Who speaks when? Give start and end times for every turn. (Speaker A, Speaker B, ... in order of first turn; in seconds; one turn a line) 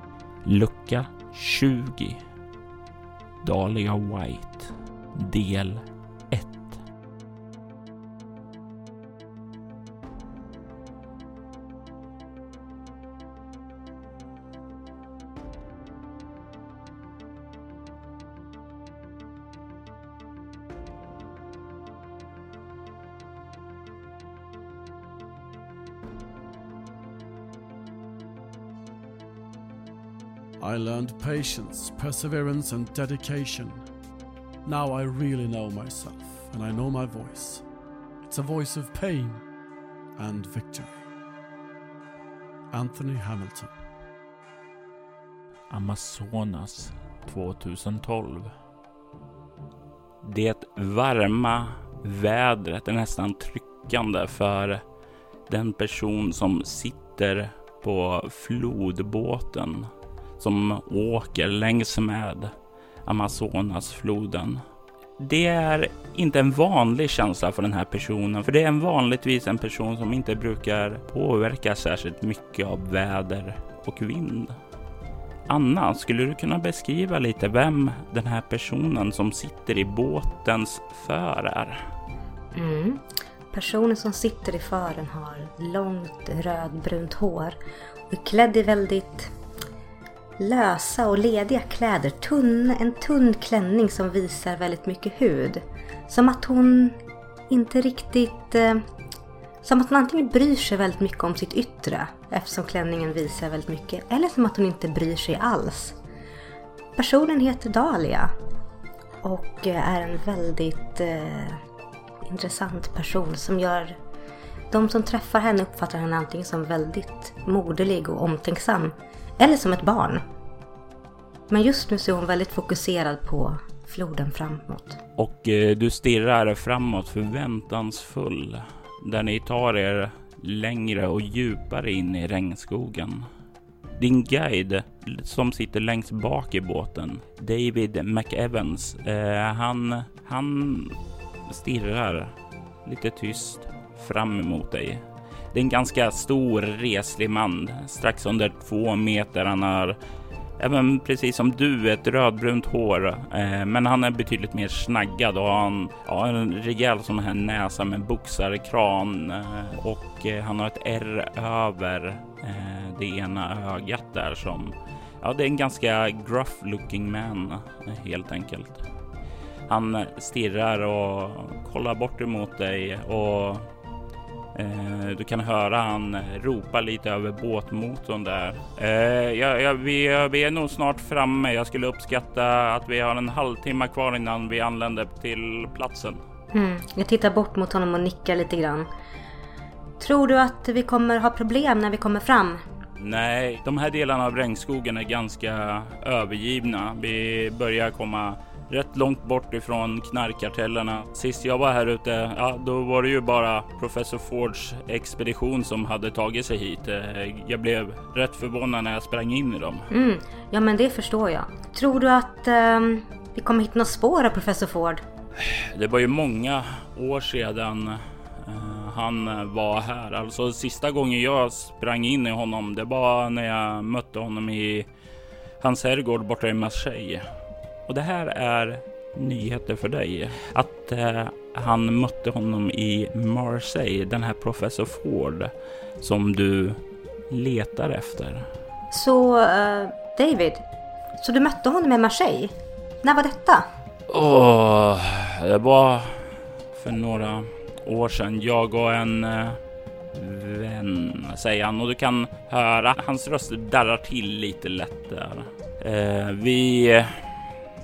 Speaker A: 0.4-2.2
Speaker A: 3.4-6.8
Speaker B: 30.6-33.9
Speaker B: 34.6-37.7
Speaker B: 38.2-39.4
Speaker B: 40.2-41.0
Speaker B: 42.7-43.8
Speaker A: 45.7-48.5
Speaker A: 50.2-54.8
Speaker A: 55.5-62.5
Speaker A: 63.0-64.6
Speaker A: 65.2-74.6
Speaker A: 75.5-81.9
Speaker C: 82.5-87.6
Speaker C: 88.1-89.3
Speaker C: 90.4-97.0
Speaker C: 97.5-98.8
Speaker C: 99.6-106.0
Speaker C: 107.0-108.3
Speaker C: 109.2-111.6
Speaker C: 112.2-114.0
Speaker C: 114.7-120.2
Speaker C: 121.5-125.0
Speaker A: 125.2-133.3
Speaker A: 134.0-141.0
Speaker A: 141.5-150.0
Speaker A: 150.6-168.9
Speaker A: 169.7-173.7
Speaker A: 174.6-186.2
Speaker C: 186.5-188.9
Speaker C: 190.0-192.6
Speaker A: 193.0-209.9
Speaker C: 209.9-215.0
Speaker A: 215.4-224.9
Speaker A: 225.6-227.3
Speaker A: 227.9-236.8
Speaker A: 237.3-238.5
Speaker C: 238.9-240.7
Speaker C: 241.2-243.7
Speaker A: 244.1-249.6
Speaker A: 250.1-257.4